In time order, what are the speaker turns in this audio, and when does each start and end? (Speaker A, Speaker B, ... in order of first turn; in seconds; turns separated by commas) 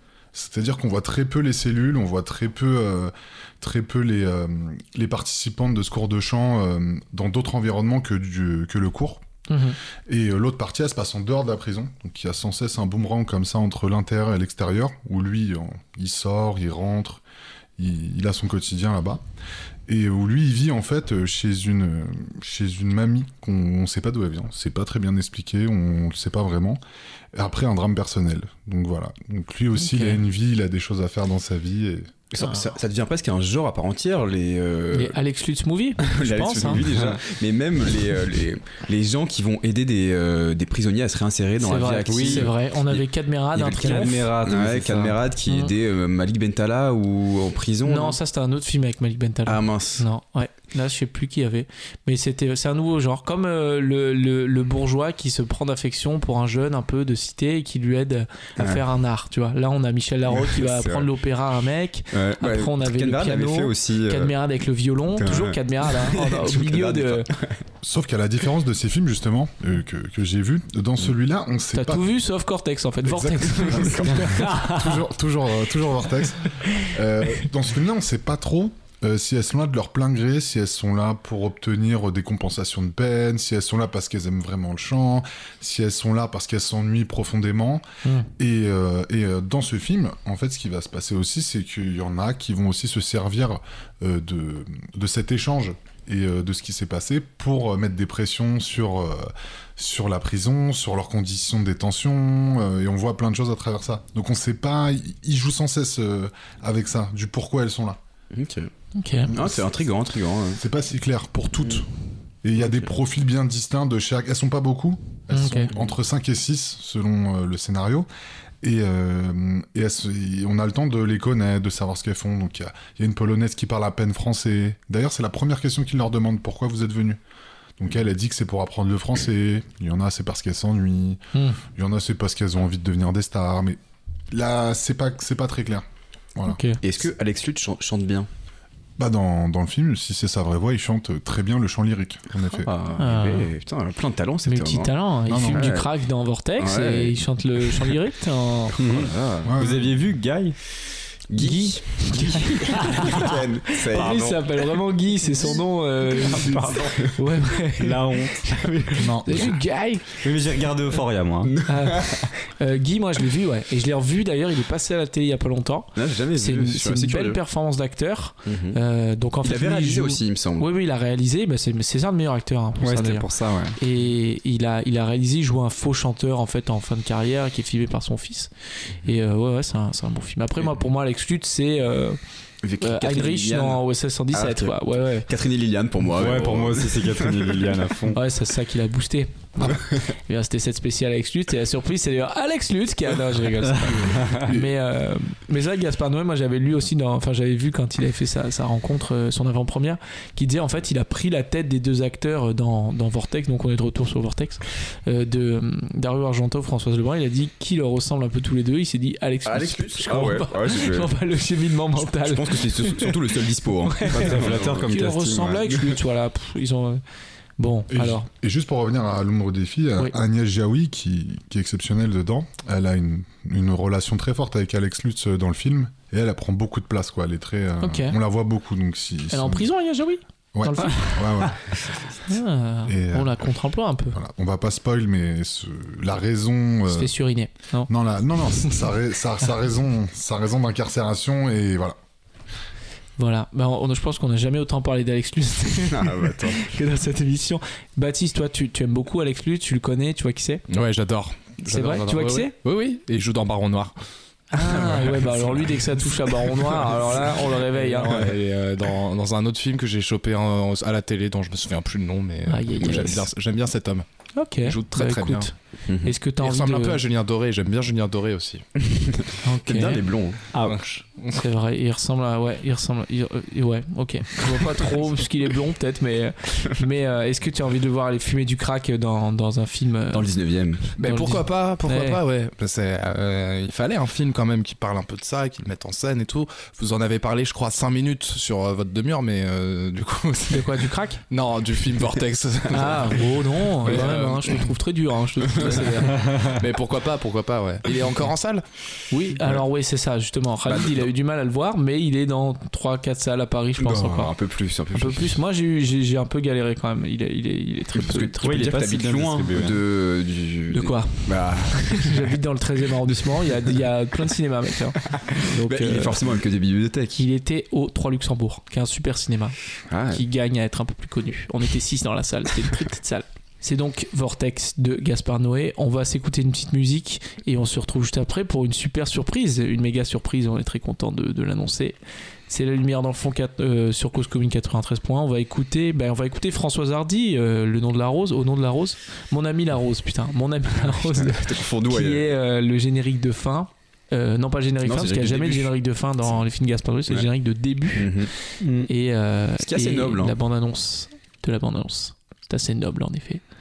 Speaker A: 0.3-9.2, Speaker B: 9.5-9.8, Speaker A: 10.1-17.2, Speaker A: 17.8-19.2, Speaker A: 19.9-26.8, Speaker A: 27.4-32.3, Speaker B: 29.8-30.2, Speaker C: 32.3-35.2, Speaker B: 34.9-36.9, Speaker C: 36.0-43.0, Speaker D: 36.6-37.2, Speaker B: 41.6-44.2, Speaker D: 42.1-42.5, Speaker C: 43.5-48.2, Speaker D: 43.6-45.2, Speaker B: 47.8-67.3, Speaker C: 49.5-50.0, Speaker C: 58.6-58.8, Speaker C: 60.3-61.1, Speaker C: 62.1-64.3, Speaker C: 65.1-67.7, Speaker A: 67.8-72.1, Speaker B: 71.7-74.7, Speaker A: 73.0-87.8, Speaker C: 73.8-74.2, Speaker A: 88.4-108.0, Speaker C: 108.3-108.7, Speaker B: 109.0-109.3, Speaker A: 109.3-109.7, Speaker C: 109.3-110.6, Speaker A: 110.6-111.9, Speaker A: 112.4-118.1, Speaker C: 112.6-112.9, Speaker B: 115.3-115.7, Speaker A: 118.6-127.2, Speaker A: 127.8-133.8, Speaker B: 131.3-131.6, Speaker A: 134.3-136.6, Speaker B: 136.4-136.8, Speaker C: 136.8-138.3, Speaker A: 139.0-142.7, Speaker C: 142.5-144.9, Speaker B: 143.0-143.5, Speaker B: 144.4-148.8, Speaker A: 145.3-145.7, Speaker C: 145.5-145.9, Speaker C: 146.6-148.0, Speaker C: 148.7-149.5, Speaker D: 148.8-150.6, Speaker A: 149.4-149.8, Speaker C: 151.3-154.6, Speaker B: 151.4-160.2, Speaker D: 156.2-158.7, Speaker A: 159.0-159.5, Speaker D: 159.3-159.5, Speaker D: 160.1-161.6, Speaker C: 161.5-162.3, Speaker B: 161.7-173.3, Speaker C: 166.0-167.4, Speaker C: 168.5-168.8, Speaker C: 169.4-170.7, Speaker D: 172.8-173.8, Speaker B: 173.8-178.5, Speaker B: 179.0-182.2, Speaker C: 182.6-187.8, Speaker B: 182.8-185.3, Speaker D: 186.1-188.2, Speaker B: 188.1-217.0, Speaker D: 193.9-194.4, Speaker C: 209.4-211.1, Speaker C: 212.0-214.9, Speaker D: 214.1-215.7, Speaker B: 217.6-218.3, Speaker A: 217.9-229.7, Speaker B: 227.8-228.2, Speaker B: 229.3-231.5, Speaker A: 230.6-231.8, Speaker B: 232.3-234.2, Speaker A: 232.9-233.5, Speaker A: 234.1-237.2, Speaker B: 236.9-237.9, Speaker A: 237.9-242.0, Speaker B: 243.2-250.6, Speaker C: 245.9-246.7, Speaker E: 250.7-253.9, Speaker B: 251.7-252.5, Speaker B: 254.5-258.3, Speaker E: 254.6-255.6, Speaker E: 256.4-264.1, Speaker B: 262.5-263.2, Speaker C: 262.8-263.2, Speaker B: 264.4-267.0, Speaker E: 264.6-265.5, Speaker C: 265.9-266.1, Speaker E: 266.4-268.7, Speaker C: 268.8-270.4, Speaker B: 269.4-270.1, Speaker D: 270.5-271.0, Speaker E: 270.6-271.4, Speaker B: 271.3-280.3, Speaker C: 280.1-280.9, Speaker B: 280.9-282.2, Speaker E: 281.0-294.7, Speaker B: 290.5-291.2, Speaker B: 292.7-296.2, Speaker E: 295.5-298.6, Speaker B: 299.1-304.3, Speaker C: 300.6-301.1, Speaker C: 303.8-305.4, Speaker B: 304.9-308.6, Speaker C: 307.9-312.4, Speaker D: 308.4-309.8, Speaker B: 310.7-316.2, Speaker C: 313.1-313.7, Speaker C: 315.1-317.2, Speaker B: 317.1-319.6, Speaker C: 319.9-320.2, Speaker B: 320.1-332.0, Speaker B: 332.5-348.3, Speaker C: 340.8-342.3, Speaker C: 344.8-346.4, Speaker C: 347.9-348.3, Speaker D: 348.6-348.9, Speaker B: 348.9-353.4, Speaker C: 349.6-350.4